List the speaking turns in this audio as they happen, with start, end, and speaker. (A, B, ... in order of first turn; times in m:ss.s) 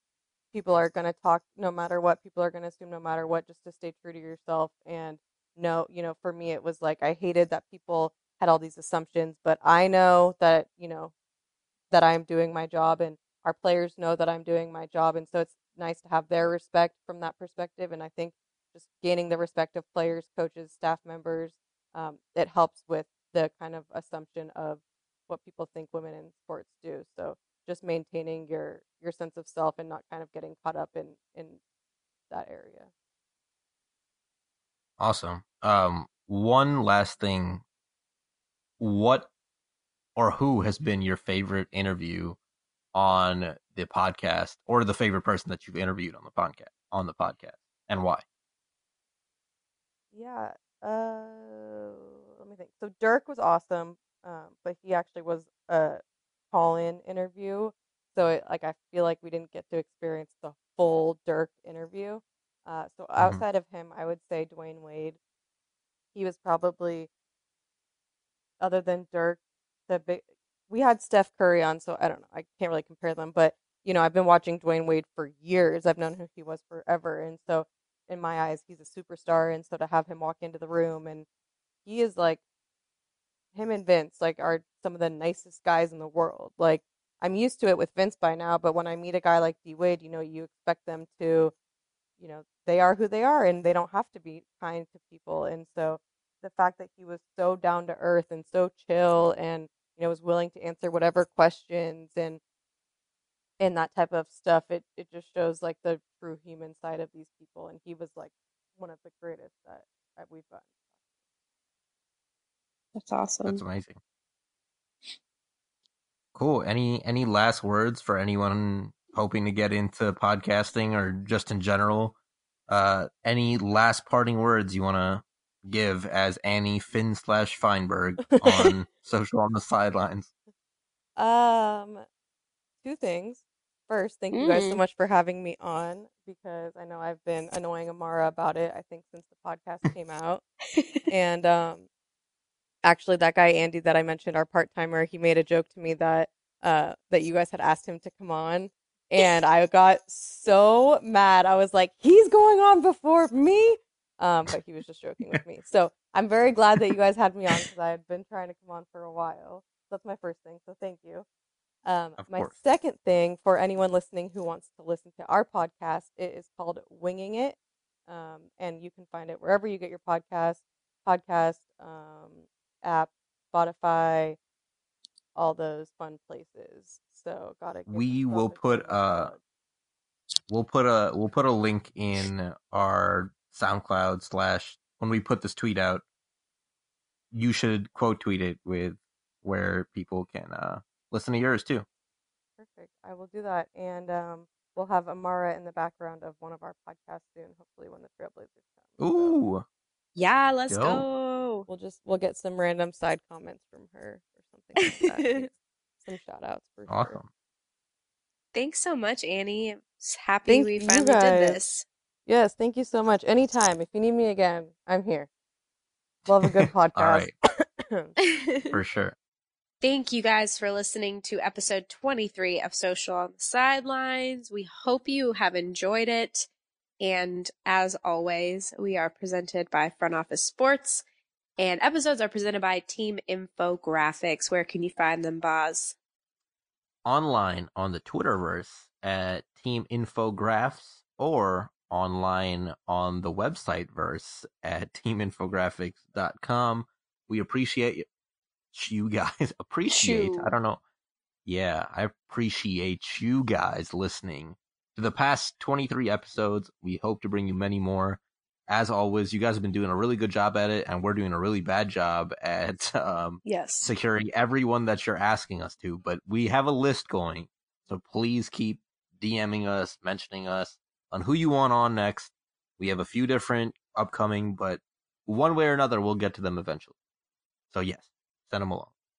0:00.5-0:11.1 A
0:11.9-0:31.6 A
0:32.3-0:32.9 A
0:35.0-0:37.6 B
0:38.8-0:39.3 B
0:40.2-0:42.4 B
0:42.9-0:48.2 B
0:50.1-1:05.2 A
1:03.2-1:03.4 B
1:06.1-1:07.1 A
1:08.6-1:21.3 A
1:21.8-1:22.4 A
1:23.5-1:31.5 A
1:32.2-1:42.4 A
1:43.6-1:50.8 A
1:53.0-1:53.6 C
1:53.4-1:54.0 B
1:56.3-2:02.2 B
2:02.7-2:10.3 B
2:08.4-2:08.7 A
2:11.2-2:12.0 A
2:12.8-2:20.4 A
2:14.3-2:14.8 C
2:20.7-2:21.1 C
2:21.1-2:21.9 A
2:22.8-2:41.3 A
2:41.8-2:54.4 A
2:42.2-2:42.6 B
2:55.4-2:59.4 A
2:57.9-2:59.4 B
3:00.5-3:06.0 B
3:07.3-3:11.9 B
3:12.6-3:19.4 A
3:19.0-3:19.6 B
3:20.1-3:21.7 C
3:20.7-3:21.0 B
3:21.7-3:27.2 A
3:24.8-3:25.4 C
3:26.9-3:27.3 B
3:28.5-3:31.8 C
3:30.5-3:31.6 A
3:32.3-3:35.3 A
3:36.3-3:38.1 A
3:36.4-3:37.3 B
3:38.2-3:38.7 C
3:38.7-3:39.1 B
3:39.8-3:46.5 C
3:47.0-3:51.0 C
3:51.6-3:56.0 C
3:57.0-4:08.0 B
4:08.7-4:10.8 B
4:09.9-4:10.5 C
4:11.4-4:36.9 B
4:23.4-4:23.9 C
4:37.7-4:38.9 B